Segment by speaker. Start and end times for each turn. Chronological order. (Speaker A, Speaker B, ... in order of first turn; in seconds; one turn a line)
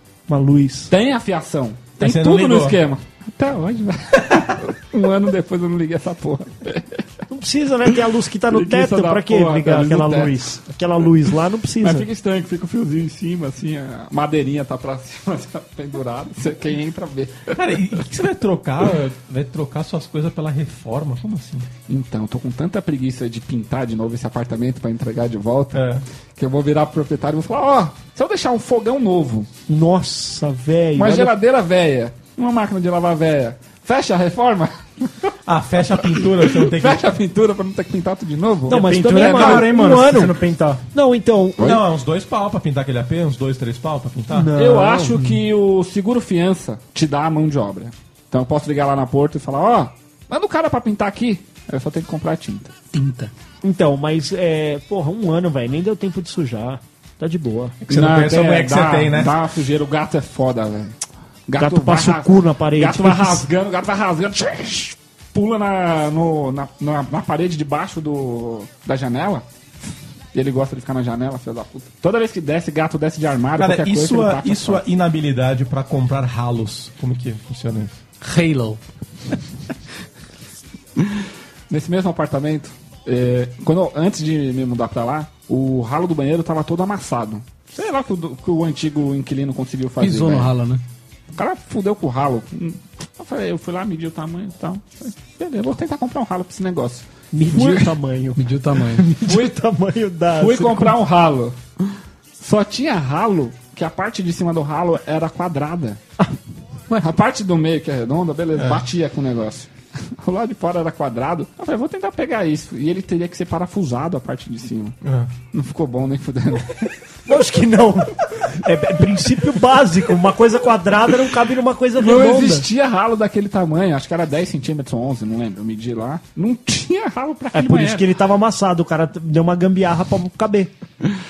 Speaker A: 0.3-0.9
Speaker B: 0.9-7.0
Speaker C: 2.0-2.8
Speaker A: 7.3-12.1
Speaker B: 8.5-10.3
Speaker B: 11.8-17.6
Speaker C: 17.5-21.7
Speaker B: 21.9-29.5
Speaker C: 25.7-26.0
Speaker A: 29.7-31.3
Speaker B: 30.9-35.3
Speaker C: 35.5-37.1
Speaker B: 36.1-39.8
Speaker A: 38.7-40.4
Speaker D: 38.7-40.8
Speaker A: 40.9-41.7
Speaker C: 41.6-44.5
Speaker A: 44.3-45.2
Speaker B: 44.6-52.7
Speaker E: 52.9-53.3
Speaker A: 53.6-57.8
Speaker C: 57.8-59.4
Speaker B: 57.9-61.0
Speaker B: 61.5-69.4
Speaker A: 61.6-63.5
Speaker B: 70.3-74.8
Speaker C: 73.6-78.0
Speaker E: 78.2-78.8
Speaker B: 81.0-90.5
Speaker E: 90.0-90.8
Speaker B: 91.3-97.9
Speaker A: 97.3-101.0
Speaker E: 98.3-99.1
Speaker B: 99.2-99.5
Speaker B: 100.3-101.6
Speaker B: 102.4-106.0
Speaker B: 107.0-115.0
Speaker C: 108.6-108.8
Speaker C: 115.0-115.3
Speaker B: 115.5-116.9
Speaker A: 117.3-122.7
Speaker B: 122.0-128.1
Speaker A: 127.5-130.7